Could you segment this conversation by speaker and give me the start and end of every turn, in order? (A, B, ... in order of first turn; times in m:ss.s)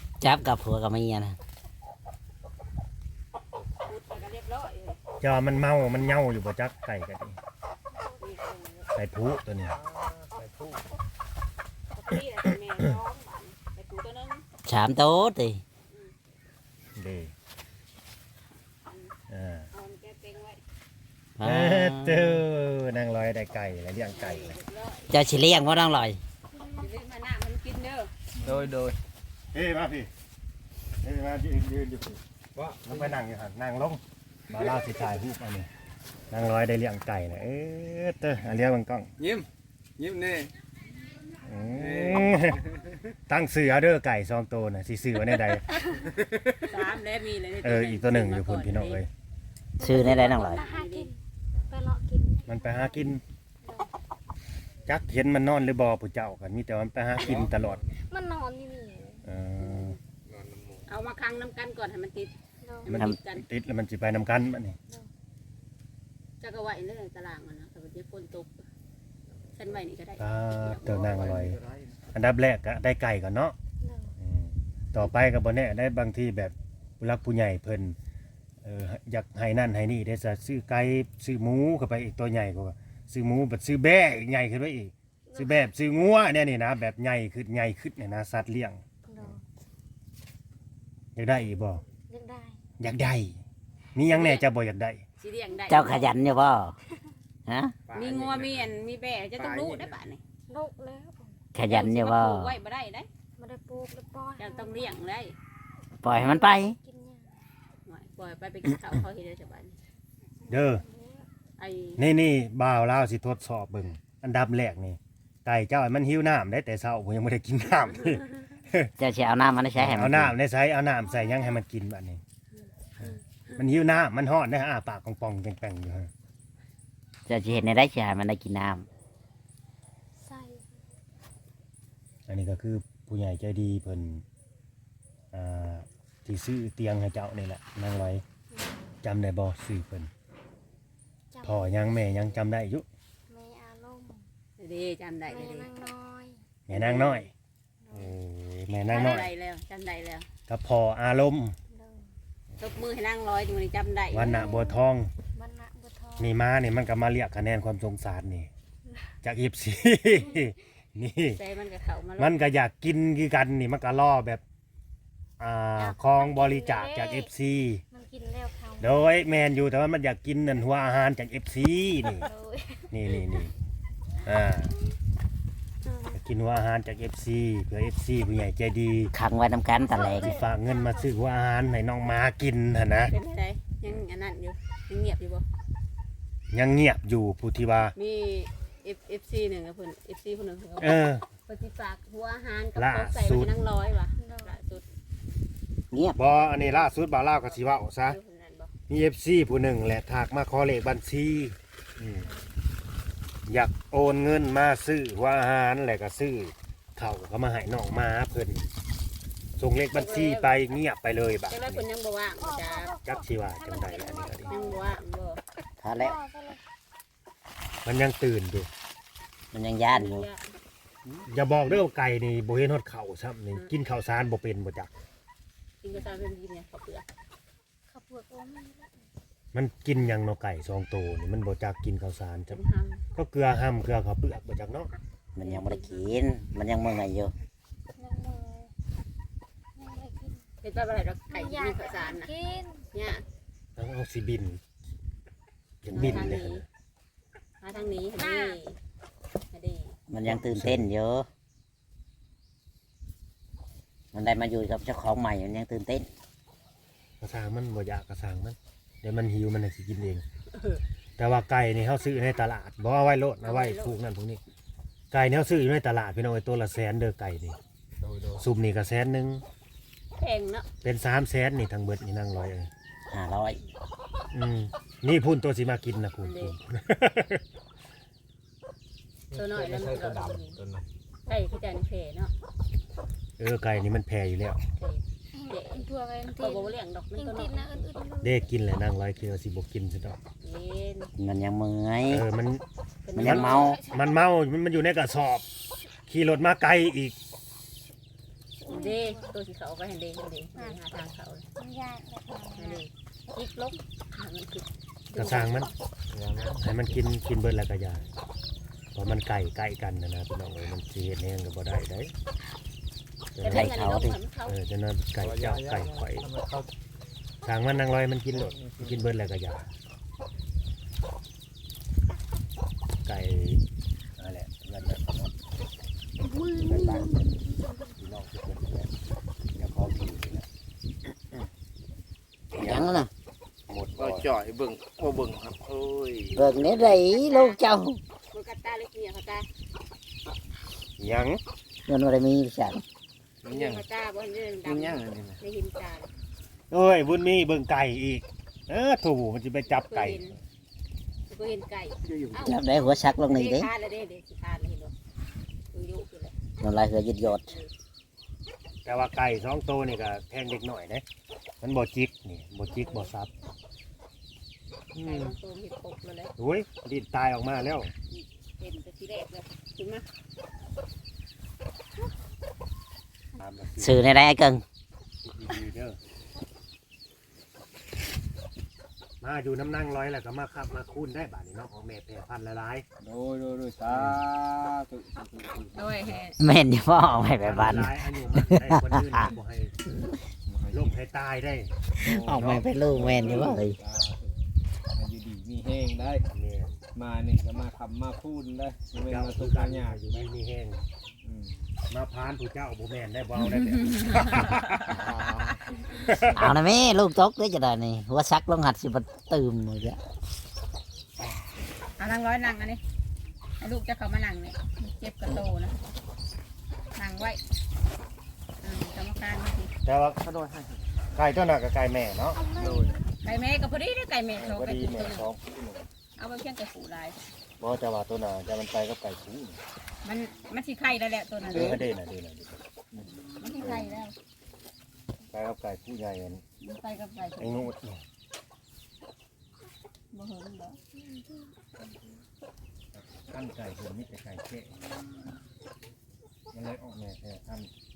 0:00.2-0:01.4 A
0:03.6-0:03.9 B
0:03.9-0:05.0 C
0:05.2-0:07.4 D
0:08.2-0:08.9 C
0:08.9-0:09.8 D
0:09.7-0:10.8 B
0:11.9-0:14.4 C
0:14.7-0:15.6 A
0:17.0-0:17.3 D
0:18.9-0:19.1 C
0:19.3-0:19.7 D
0:19.7-0:20.6 C
0:21.4-0:22.4 A
0:21.4-0:24.6 D
0:24.1-0:25.1 C
0:25.1-0:26.2 A
0:26.6-0:26.9 E
0:26.8-0:28.1 C
0:28.4-0:29.0 B
0:29.5-0:30.1 D
0:31.0-0:32.2 D
0:32.6-0:33.2 B
0:32.8-0:35.7 D
0:36.3-0:39.1 D
0:39.2-0:39.5 B
0:40.0-0:40.5 B
0:41.4-0:42.6 D
0:41.7-0:43.0 B
0:43.3-0:45.7 D
0:46.1-0:46.7 B
0:46.6-0:49.0 C
0:47.6-0:49.1 D
0:49.8-0:50.6 A
0:49.8-0:51.2 E
0:49.9-0:51.1 C
0:51.7-0:53.9 E
0:52.5-0:53.2 D
0:54.9-0:57.8 D
0:57.2-0:58.0 B
0:58.0-0:59.2 E
0:59.2-1:00.0 D
0:59.6-1:00.0 C
1:00.3-1:00.9 B
1:00.9-1:02.3 C
1:02.6-1:03.0 E
1:02.9-1:03.4 C
1:02.9-1:03.2 A
1:03.0-1:04.8 D
1:06.4-1:08.6 C
1:09.6-1:11.0 C
1:10.2-1:11.6 D
1:10.8-1:12.1 B
1:12.1-1:13.6 D
1:13.8-1:14.1 E
1:14.2-1:18.0 D
1:18.6-1:29.3 D
1:25.3-1:25.7 E
1:29.0-1:29.4 E
1:31.2-1:31.8 D
1:32.1-1:32.6 E
1:32.8-1:33.4 D
1:34.0-1:35.0 D
1:34.1-1:34.5 C
1:35.2-1:36.1 C
1:35.7-1:36.8 A
1:37.5-1:37.8 A
1:37.9-1:38.7 B
1:38.0-1:40.2 C
1:39.4-1:40.0 B
1:40.5-1:41.4 E
1:41.5-1:42.6 A
1:41.6-1:43.1 C
1:43.4-1:45.0 E
1:44.4-1:45.4 C
1:46.0-1:46.8 A
1:46.1-1:47.4 E
1:47.8-1:49.8 C
1:50.5-1:50.8 D
1:50.5-1:51.3 E
1:51.6-1:52.0 C
1:52.0-1:58.9 D
1:59.0-2:00.4 A
1:59.8-2:02.2 D
2:01.0-2:01.6 E
2:02.6-2:03.2 E
2:03.0-2:06.1 D
2:07.3-2:08.9 A
2:10.2-2:10.6 E
2:12.3-2:14.2 D
2:15.3-2:18.2 D
2:18.5-2:18.9 E
2:19.0-2:20.1 D
2:21.3-2:22.2 E
2:21.4-2:22.9 D
2:23.3-2:24.3 E
2:24.6-2:25.7 C
2:25.3-2:26.4 E
2:26.7-2:27.3 D
2:26.7-2:27.3 C
2:27.8-2:28.2 E
2:27.9-2:29.3 D
2:28.9-2:30.3 C
2:29.0-2:29.2 E
2:30.5-2:31.6 D
2:31.7-2:32.1 E
2:32.6-2:34.4 C
2:34.1-2:35.1 D
2:34.2-2:34.8 E
2:35.4-2:36.4 E
2:36.2-2:38.5 D
2:39.2-2:41.4 D
2:41.4-2:42.4 C
2:42.2-2:44.4 D
2:45.4-2:47.8 D
2:45.8-2:47.3 E
2:47.9-2:49.1 E
2:48.8-2:52.2 D
2:52.0-2:53.5 E
2:52.9-2:53.5 D
2:54.2-2:54.8 D
2:55.8-2:56.2 E
2:56.1-2:59.1 D
2:59.1-3:00.4 A
2:59.7-3:01.1 E
3:00.0-3:03.1 D
3:03.1-3:05.5 C
3:06.5-3:07.9 D
3:08.0-3:14.8 C
3:10.8-3:11.2 D
3:12.8-3:13.5 D
3:14.2-3:14.6 E
3:15.9-3:16.2 A
3:16.2-3:18.2 D
3:16.4-3:18.7 C
3:18.9-3:22.3 D
3:22.2-3:22.5 E
3:23.5-3:28.7 D
3:29.6-3:31.8 D
3:29.9-3:30.6 C
3:31.5-3:33.0 C
3:32.4-3:34.9 E
3:33.0-3:34.5 D
3:34.5-3:35.4 C
3:35.8-3:36.2 A
3:36.0-3:36.6 E
3:37.8-3:38.7 D
3:39.5-3:40.3 A
3:39.9-3:40.5 C
3:41.3-3:44.9 D
3:45.8-3:47.1 C
3:45.9-3:46.3 E
3:47.9-3:49.1 E
3:49.5-3:52.6 D
3:52.5-3:53.0 C
3:53.2-3:54.9 D
3:55.4-3:57.3 A
3:55.4-3:56.1 C
3:58.0-3:58.7 E
3:59.8-4:00.4 E
4:00.6-4:02.3 C
4:01.3-4:02.8 E
4:02.9-4:03.2 C
4:03.8-4:04.6 D
4:05.8-4:06.6 D
4:05.9-4:06.3 A
4:05.9-4:06.6 C
4:07.6-4:08.8 C
4:07.7-4:08.6 E
4:09.5-4:10.0 C
4:10.1-4:11.3 A
4:10.3-4:10.9 D
4:14.1-4:16.1 A
4:17.2-4:20.2 D
4:20.5-4:20.8 C
4:21.2-4:24.4 D
4:23.4-4:24.0 C
4:25.1-4:27.6 D
4:28.0-4:28.5 B
4:28.4-4:29.4 D
4:30.2-4:30.7 C
4:30.8-4:32.7 D
4:33.1-4:33.6 A
4:34.3-4:37.4 D
4:36.2-4:36.6 C
4:39.3-4:40.8 B
4:39.3-4:40.6 C
4:41.3-4:42.3 C
4:43.4-4:44.6 D
4:44.8-4:47.9 C
4:45.4-4:48.5 E
4:48.2-4:50.2 D
4:50.4-4:51.1 C
4:51.2-4:52.2 A
4:52.1-4:52.6 D
4:53.0-4:53.7 C
4:53.2-4:53.8 A
4:53.2-4:55.5 D
4:53.3-4:54.2 E
4:56.1-4:57.2 D
4:58.6-4:59.4 E
4:58.7-5:01.5 C
5:01.6-5:02.8 E
5:02.6-5:05.7 C
5:05.2-5:05.7 D
5:06.1-5:07.0 B
5:06.6-5:08.1 D
5:09.0-5:12.1 D
5:13.4-5:13.8 D
5:13.4-5:14.6 C
5:13.4-5:14.2 A
5:14.5-5:16.3 D
5:15.2-5:16.7 B
5:17.4-5:19.7 D
5:18.3-5:19.1 B
5:23.0-5:23.6 D
5:24.2-5:25.3 D
5:26.2-5:27.9 E
5:26.5-5:27.4 D
5:28.0-5:28.9 D
5:29.6-5:30.5 D
5:32.5-5:33.1 A
5:32.5-5:33.0 D
5:33.7-5:34.3 D
5:34.0-5:36.4 B
5:36.3-5:37.6 C
5:36.4-5:38.0 A
5:38.3-5:39.5 C
5:41.0-5:41.4 D
5:41.9-5:42.8 A
5:43.4-5:43.8 B
5:43.5-5:46.1 C
5:44.6-5:45.4 B
5:46.7-5:50.2 D
5:49.7-5:50.4 C
5:51.3-5:54.9 C
5:52.1-5:52.6 B
5:52.4-5:53.7 A
5:55.7-5:56.3 C
5:56.6-5:57.6 A
5:57.2-5:57.7 C
5:58.8-6:01.0 D
6:01.6-6:03.3 D
6:02.7-6:03.1 C
6:04.9-6:05.4 D
6:05.0-6:06.3 C
6:06.4-6:07.9 D
6:08.1-6:10.1 C
6:13.4-6:14.0 D
6:13.8-6:14.6 A
6:15.2-6:16.0 D
6:19.2-6:22.8 D
6:23.0-6:26.2 B
6:23.9-6:24.3 D
6:25.8-6:26.4 C
6:26.4-6:29.4 A
6:27.0-6:29.8 D
6:30.5-6:31.0 B
6:30.7-6:31.7 D
6:32.0-6:34.4 B
6:32.0-6:33.8 A
6:32.3-6:32.6 D
6:34.9-6:36.3 B
6:36.3-6:36.8 D
6:37.0-6:40.3 B
6:39.0-6:40.8 D
6:41.2-6:41.6 B
6:41.9-6:45.0 D
6:43.4-6:45.0 C
6:44.9-6:45.8 B
6:46.0-6:46.5 D
6:46.3-6:50.0 A
6:52.0-6:52.8 C
6:53.6-6:55.8 C
6:57.0-6:57.4 C
6:58.6-6:59.7 C
6:59.8-7:00.2 D
7:00.2-7:00.8 B
7:01.2-7:02.4 D
7:02.3-7:03.1 E
7:02.5-7:03.0 B
7:03.2-7:05.3 C
7:04.4-7:05.9 D
7:06.2-7:07.2 C
7:07.6-7:09.6 D
7:10.0-7:11.8 C
7:11.5-7:11.8 B
7:11.5-7:13.1 D
7:13.4-7:14.1 C
7:13.6-7:13.9 D
7:15.3-7:16.4 D
7:16.6-7:17.7 C
7:17.4-7:18.0 D
7:20.1-7:20.8 C
7:20.9-7:22.1 E
7:22.9-7:24.8 D
7:26.5-7:27.7 D